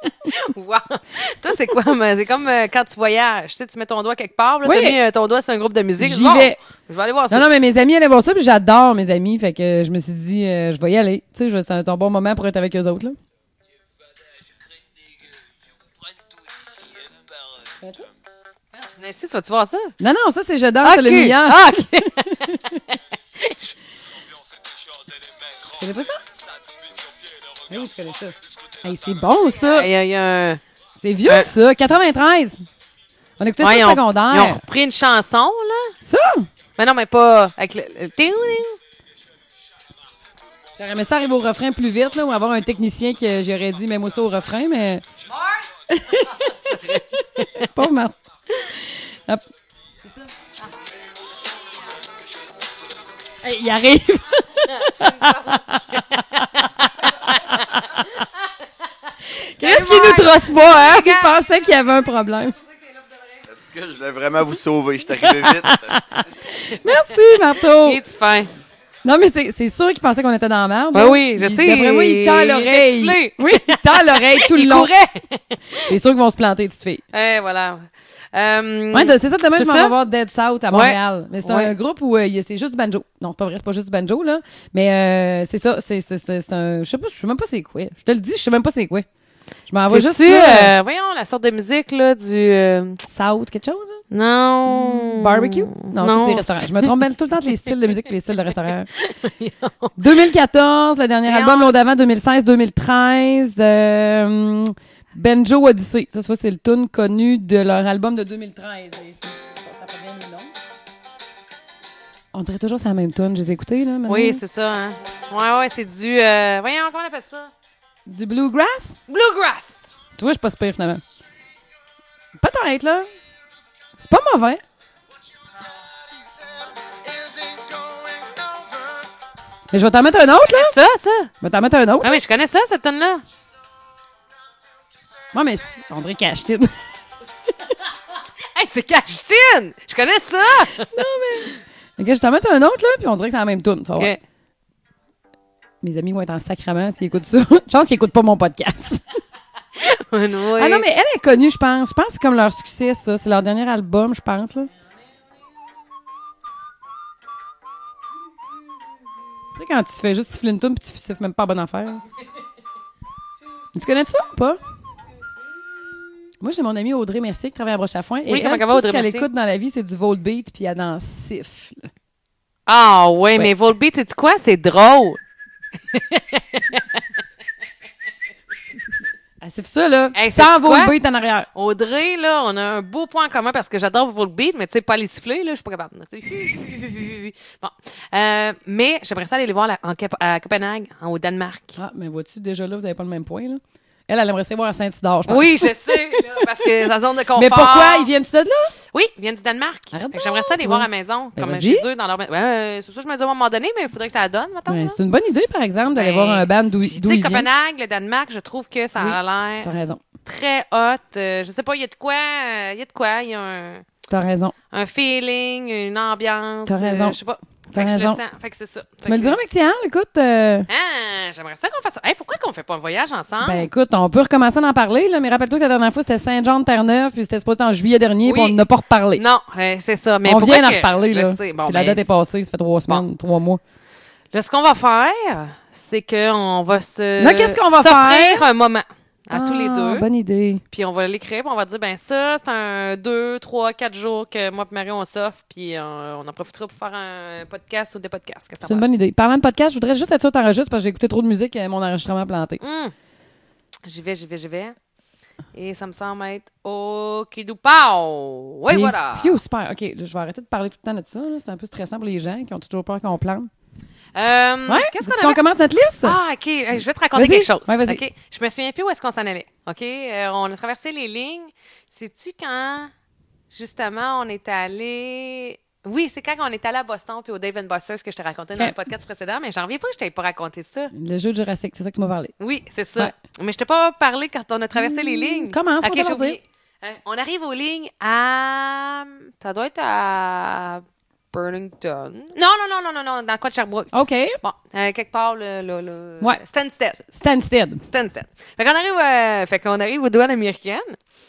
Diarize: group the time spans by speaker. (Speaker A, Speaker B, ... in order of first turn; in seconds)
Speaker A: 0.2-7.5, 18.7-19.9, 20.8-23.7, 29.6-30.6, 31.3-31.5, 33.6-35.9, 36.8-38.8, 45.3-45.6, 46.1-47.7, 54.6-58.5, 59.6-61.5, 62.5-63.4, 67.6-68.5, 70.9-75.9, 77.1-79.9, 80.7-81.7, 89.8-93.0, 94.1-96.9, 99.0-100.0, 101.3-101.8, 114.1-117.5, 119.1-119.9, 130.5-131.3, 132.0-133.2, 138.6-140.9, 149.8-150.9, 168.3-169.3, 172.7-175.2, 175.9-177.0, 180.2-180.9, 181.5-191.8, 195.3-198.1, 198.9-205.0, 205.9-209.7, 210.2-213.9, 214.7-219.4, 220.7-223.7, 228.2-228.6, 229.2-232.1, 234.3-240.1, 240.7-248.9, 252.6-252.9, 253.8-254.8, 255.5-259.4, 264.1-265.4, 266.0-272.9, 273.5-280.9, 282.4-297.1, 297.8-301.0
Speaker B: 4.7-5.0, 6.0-6.6, 7.3-13.2, 17.8-18.1, 20.0-22.6, 25.6-26.2, 27.7-29.9, 31.0-32.6, 33.4-34.6, 36.0-36.5, 40.8-45.0, 45.9-49.4, 53.4-58.1, 59.3-62.5, 65.2-68.0, 69.0-74.9, 75.8-77.0, 78.9-89.1, 89.7-90.7, 93.0-94.0, 94.7-98.9, 100.0-110.5, 112.3-114.4, 118.1-119.0, 120.2-121.0, 122.4-123.1, 124.0-124.6, 129.7-130.8, 131.4-132.2, 135.3-136.7, 140.8-144.1, 145.8-149.0, 150.6-154.7, 159.6-162.0, 163.8-164.6, 166.4-171.9, 179.4-181.5, 191.8-198.7, 199.9-201.9, 204.7-207.5, 209.0-210.0, 214.1-214.6, 216.7-217.2, 217.7-218.2, 219.1-220.7, 223.4-229.2, 230.2-233.6, 237.2-238.5, 239.3-240.6, 248.6-252.6, 258.7-263.5, 264.7-266.2, 267.2-268.0, 280.9-282.3, 284.8-286.4, 293.9-294.4, 297.1-297.8
Speaker C: 63.5-65.9